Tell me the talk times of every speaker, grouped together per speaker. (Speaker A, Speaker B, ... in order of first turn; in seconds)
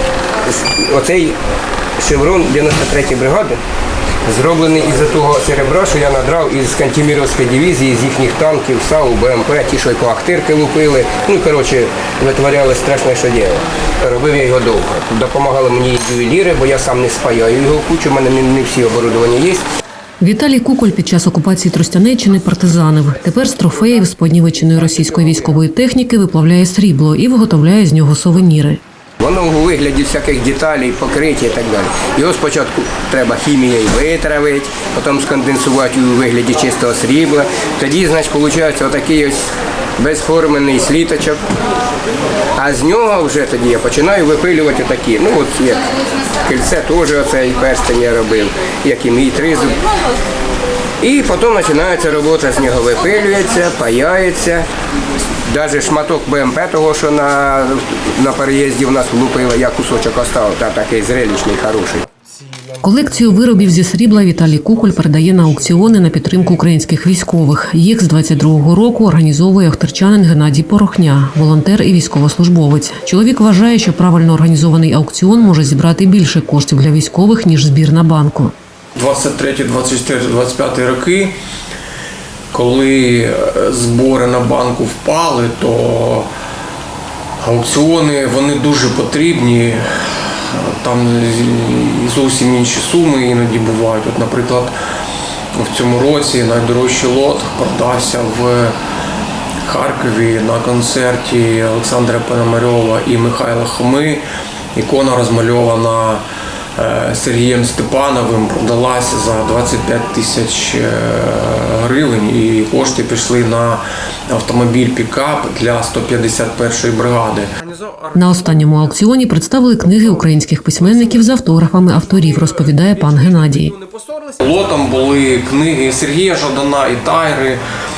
Speaker A: 0.5-1.4, 2.0-3.6, 4.2-19.6, 29.2-39.4, 40.0-41.4, 42.5-45.8, 46.4-49.8, 51.0-54.6, 55.4-62.1
Speaker B: 20.2-28.8, 62.8-78.5, 118.1-123.7
Speaker C: 78.9-81.4, 82.5-86.3, 87.4-94.7, 95.5-98.8, 99.6-104.2, 104.7-106.2, 106.8-118.9, 120.8-121.1, 123.7-127.6